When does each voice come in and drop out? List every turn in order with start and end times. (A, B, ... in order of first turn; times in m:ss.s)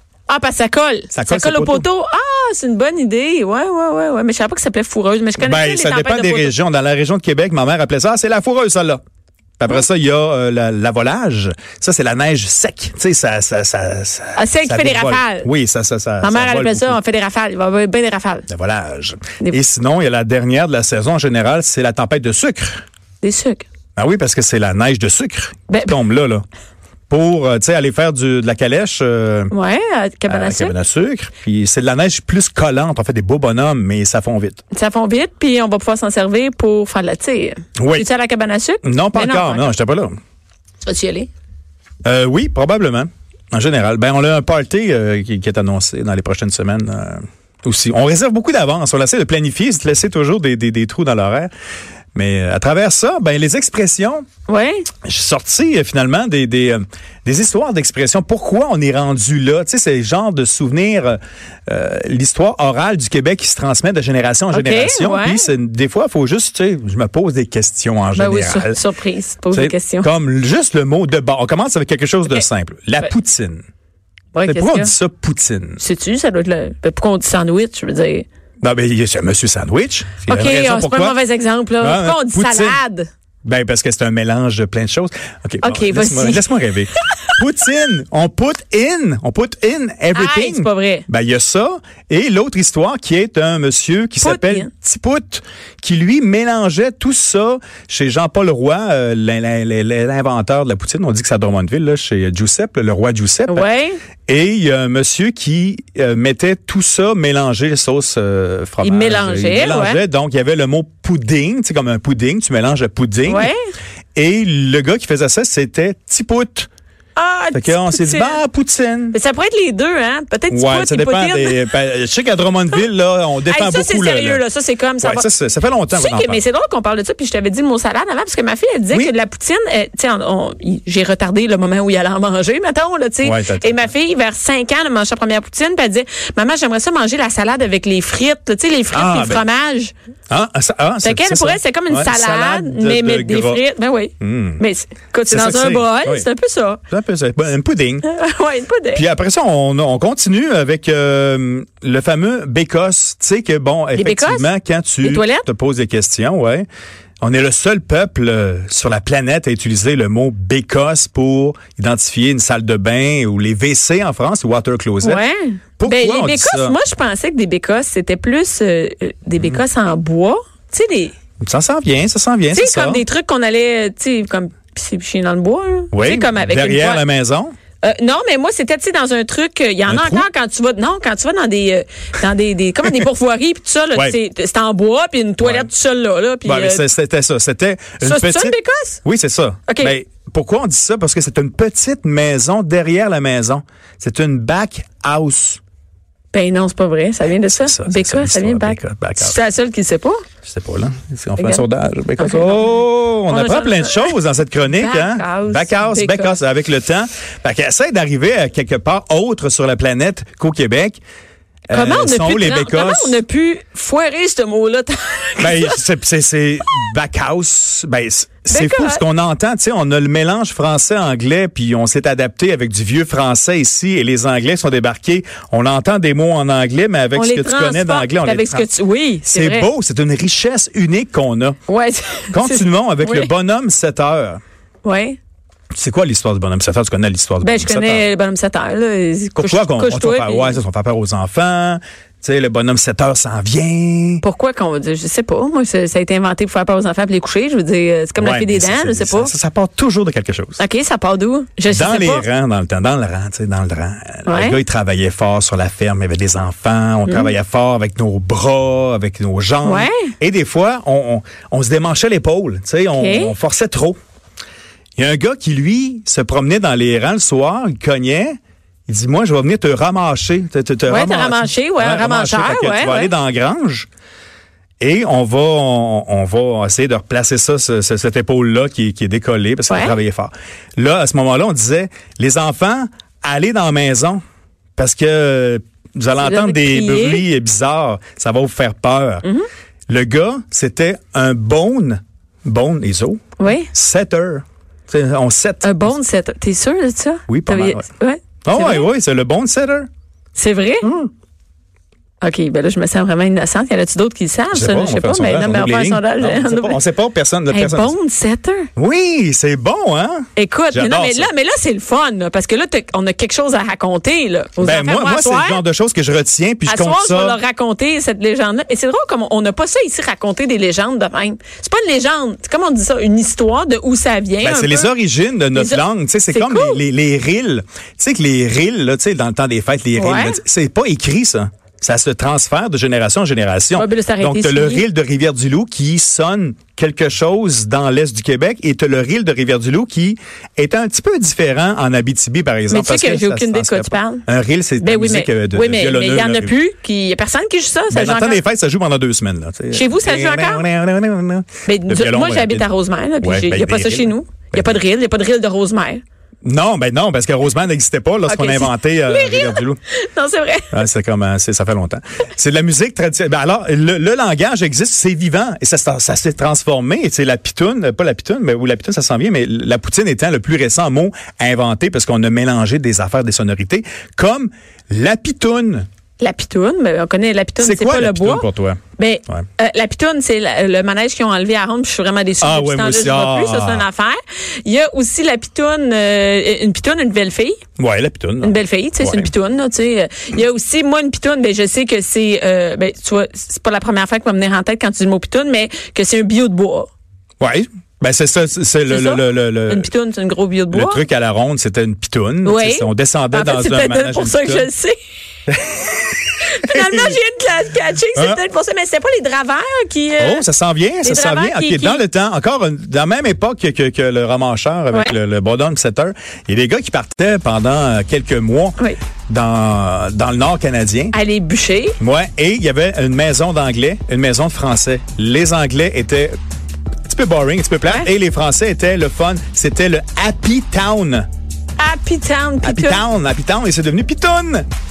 0:00.3-0:06.5 A
0:01.1-0:01.9 B
0:05.4-0:09.0 B
0:09.6-0:17.0 B
0:14.4-0:15.5 A
0:16.2-0:18.5 A
0:18.5-0:22.8 B
0:23.2-0:23.7 A
0:24.0-0:26.4 B
0:25.7-0:26.0 A
0:27.1-0:29.5 B
0:29.5-0:30.8 A
0:30.3-0:34.6 B
0:34.7-0:39.7 A
0:37.8-0:38.1 B
0:38.8-0:40.2 B
0:40.8-0:41.3 A
0:42.0-0:51.5 B
0:52.2-0:54.2 B
0:54.5-0:54.9 A
0:55.0-1:08.8 B
1:04.5-1:05.5 A
1:08.1-1:10.1 A
1:09.5-1:13.6 B
1:14.3-1:14.9 A
1:14.5-1:15.8 B
1:15.8-1:18.3 A
1:18.6-1:21.2 B
1:20.3-1:23.1 A
1:21.8-1:22.8 B
1:23.4-1:43.7 B
1:25.6-1:26.5 A
1:30.1-1:31.1 A
1:34.2-1:34.7 A
1:43.5-1:44.0 A
1:44.3-1:53.5 B
1:48.8-1:50.0 A
1:53.3-1:53.6 A
1:54.2-1:56.7 B
1:57.2-1:58.4 A
1:57.5-1:59.2 B
1:59.1-2:01.6 A
2:00.5-2:04.4 B
2:03.5-2:05.3 A
2:05.0-2:06.4 B
2:05.9-2:19.9 A
2:13.2-2:13.9 B
2:18.9-2:19.4 B
2:20.3-2:23.6 B
2:21.0-2:26.8 A
2:24.2-2:24.6 B
2:25.3-2:26.3 B
2:26.9-2:28.0 B
2:28.0-2:29.0 A
2:28.9-2:36.7 B
2:33.9-2:34.5 A
2:35.0-2:35.5 A
2:37.2-2:45.2 B
2:45.0-2:51.2 A
2:45.8-2:46.8 B
2:51.4-2:53.0 B
2:52.5-2:57.0 A
2:55.9-2:57.5 B
2:57.8-3:06.8 A
2:59.8-3:00.3 B
3:05.4-3:05.7 B
3:06.4-3:15.6 B
3:08.0-3:09.0 A
3:09.7-3:10.0 A
3:16.3-3:20.2 A
3:17.5-3:19.4 B
3:20.4-3:31.0 B
3:21.4-3:21.6 A
3:22.2-3:22.7 A
3:23.3-3:24.2 A
3:24.7-3:26.4 A
3:31.7-3:33.2 B
3:31.7-3:35.8 A
3:35.4-3:48.7 B
3:38.5-3:39.0 A
3:47.1-3:49.7 A
3:49.2-3:51.6 B
3:51.7-3:53.3 A
3:52.3-3:54.4 B
3:54.8-3:55.2 A
3:55.7-3:58.1 B
3:57.4-4:00.6 A
3:59.4-4:04.2 B
4:04.2-4:09.3 A
4:08.2-4:10.6 B
4:10.6-4:12.3 A
4:11.7-4:24.0 B
4:14.3-4:14.6 A
4:17.1-4:17.3 A
4:19.6-4:20.0 A
4:22.9-4:23.3 A
4:25.0-4:28.4 B
4:28.9-4:33.9 B
4:30.9-4:33.1 A
4:34.8-4:44.2 B
4:39.7-4:40.0 A
4:44.8-4:49.3 B
4:46.2-4:47.3 A
4:49.9-4:56.0 B
4:53.4-4:53.7 A
4:55.6-4:58.9 A
4:57.3-4:57.9 B
4:58.4-4:59.9 B
5:00.4-5:00.9 A
5:00.8-5:01.1 B
5:02.2-5:06.8 A
5:04.5-5:08.0 B
5:07.5-5:08.7 A
5:08.8-5:11.3 B
5:10.4-5:15.6 A
5:14.6-5:17.4 B
5:16.6-5:24.9 A
5:24.4-5:46.6 B
5:25.5-5:26.8 A
5:30.0-5:30.4 A
5:33.8-5:34.8 A
5:42.7-5:44.2 A
5:44.8-5:48.4 A
5:47.9-5:52.7 B
5:49.7-5:50.6 A
5:51.7-5:56.0 A
5:53.2-5:54.8 B
5:56.4-5:59.8 B
5:58.3-6:00.8 A
6:00.7-6:15.9 B
6:16.2-6:18.5 A
6:17.6-6:19.5 B
6:19.0-6:27.6 A
6:22.4-6:23.9 B
6:27.8-6:29.3 B
6:28.4-6:36.9 A
6:37.4-6:39.9 B
6:38.9-6:41.1 A
6:40.7-6:44.7 B
6:42.4-6:45.0 A
6:45.5-6:46.0 B
6:46.4-6:50.4 A
6:46.7-6:47.2 B
6:48.2-6:48.4 B
6:50.2-7:01.2 B
6:51.0-6:52.0 A
7:01.1-7:02.0 A
7:02.0-7:06.4 B
7:07.1-7:11.3 B
7:11.8-7:13.0 A
7:12.6-7:14.6 B